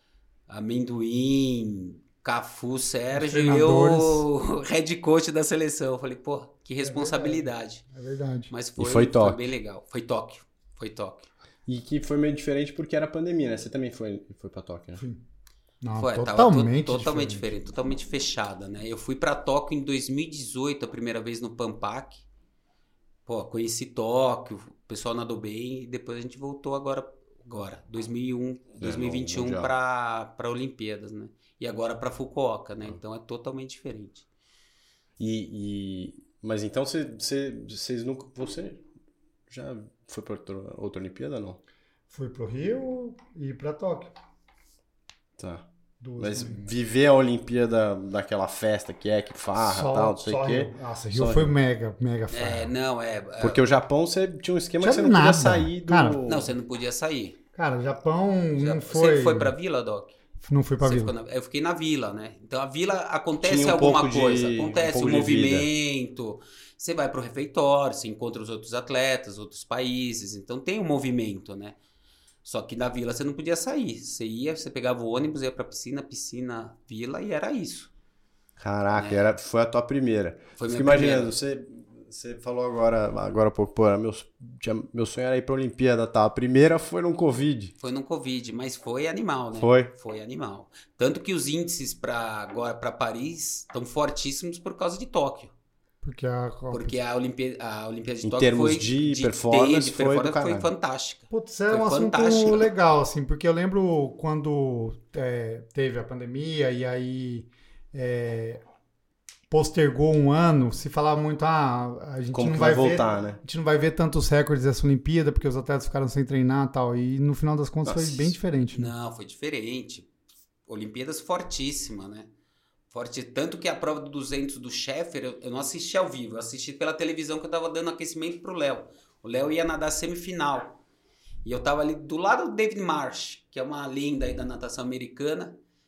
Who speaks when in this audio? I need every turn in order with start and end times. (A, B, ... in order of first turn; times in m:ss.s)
0:00.5-0:07.8 A
0:03.1-0:04.2 B
0:06.8-0:08.5 B
0:08.5-0:11.3 A
0:08.8-0:09.5 C
0:11.7-0:15.0 C
0:15.8-0:17.5 B
0:16.0-0:22.2 A
0:23.2-0:34.2 A
0:28.8-0:29.7 C
0:35.2-0:38.8 C
0:39.5-0:41.6 C
0:42.1-0:44.1 B
0:45.4-0:45.6 C
0:46.0-0:46.7 B
0:46.2-0:51.5 C
0:49.6-0:52.7 B
0:52.3-0:53.6 A
0:53.4-0:56.5 C
0:54.8-0:56.2 B
0:56.2-0:57.4 A
0:57.5-0:59.5 B
0:58.6-1:00.1 A
1:00.4-1:01.1 B
1:00.8-1:11.8 A
1:03.4-1:05.7 C
1:12.4-1:17.9 A
1:18.6-1:27.7 C
1:18.9-1:19.2 A
1:20.6-1:21.3 A
1:27.8-1:35.5 A
1:29.6-1:29.9 C
1:36.0-1:36.9 B
1:36.7-1:42.7 A
1:38.2-1:40.7 C
1:41.3-1:48.6 B
1:49.5-1:58.9 B
1:52.3-1:53.4 C
1:57.8-1:58.3 C
1:58.7-2:00.1 A
2:00.7-2:02.3 A
2:02.9-2:10.8 A
2:11.4-2:15.6 A